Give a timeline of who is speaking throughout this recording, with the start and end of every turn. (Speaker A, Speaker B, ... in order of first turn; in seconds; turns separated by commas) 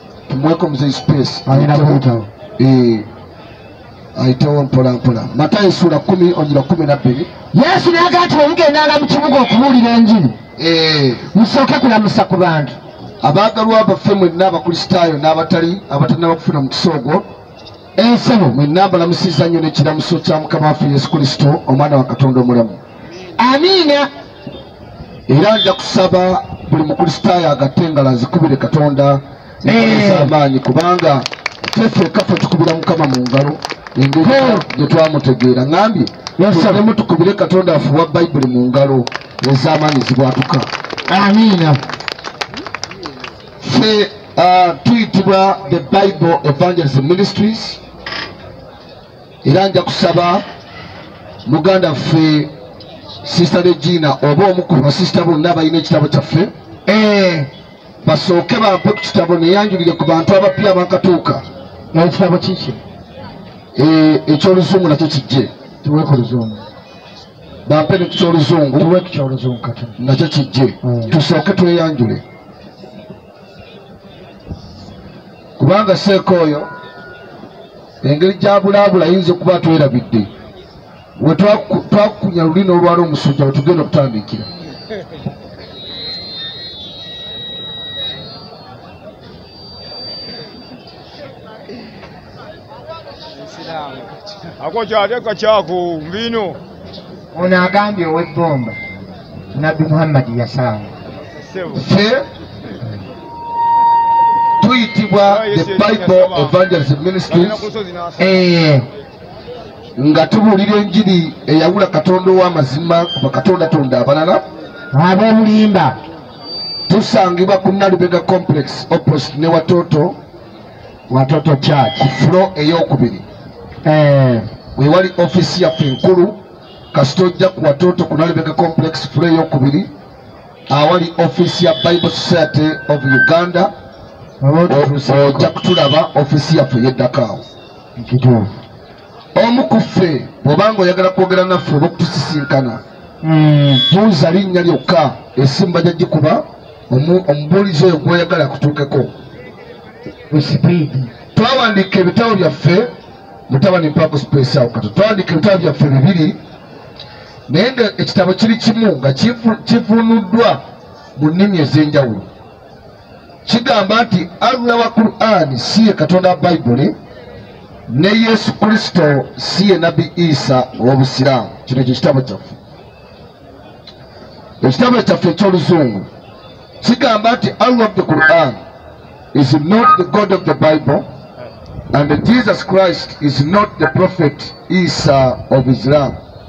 Speaker A: 0.3-2.0, Speaker B: 1.4-2.3, Speaker A: 2.6-3.1, Speaker A: 4.2-7.3, Speaker B: 7.5-10.4, Speaker A: 10.6-11.3, Speaker B: 11.3-12.8, Speaker A: 13.2-17.2, Speaker B: 18.0-18.6, Speaker A: 18.5-22.8, Speaker B: 23.4-24.1, Speaker A: 25.3-40.7, Speaker B: 29.6-30.3, Speaker B: 34.2-34.6, Speaker B: 36.4-36.8, Speaker B: 41.1-41.8, Speaker A: 43.6-47.8, Speaker A: 49.4-50.4, Speaker A: 51.5-52.5, Speaker A: 53.2-56.5, Speaker B: 56.9-57.5, Speaker A: 58.0-61.4, Speaker B: 61.9-62.8, Speaker A: 63.8-65.5, Speaker B: 65.8-66.6, Speaker A: 67.7-68.9, Speaker B: 68.7-70.0, Speaker A: 70.0-72.2, Speaker B: 70.8-71.2, Speaker A: 75.6-76.7, Speaker A: 78.0-80.3, Speaker A: 81.2-84.5, Speaker C: 94.6-96.6, Speaker B: 97.3-98.8, Speaker B: 99.5-100.9, Speaker C: 101.4-101.8, Speaker A: 101.7-102.2, Speaker A: 104.6-107.6, Speaker C: 105.2-106.5, Speaker C: 107.3-108.2, Speaker B: 108.2-108.8, Speaker A: 110.0-114.4, Speaker B: 114.9-116.0, Speaker A: 116.9-120.2, Speaker B: 121.1-122.1, Speaker A: 122.0-123.2, Speaker B: 123.8-124.5, Speaker A: 124.8-126.4, Speaker A: 126.9-129.9, Speaker A: 130.7-133.7, Speaker B: 134.4-135.5, Speaker A: 134.7-137.4, Speaker B: 138.0-138.5, Speaker A: 139.3-142.8, Speaker B: 143.2-143.8, Speaker A: 143.9-149.1, Speaker B: 150.3-151.1, Speaker A: 151.3-152.9, Speaker A: 153.5-156.4, Speaker A: 157.5-160.6, Speaker A: 161.2-162.3, Speaker A: 163.4-166.9, Speaker A: 167.9-172.6, Speaker A: 174.6-176.1, Speaker A: 176.8-178.6, Speaker A: 179.3-181.1, Speaker A: 181.9-186.2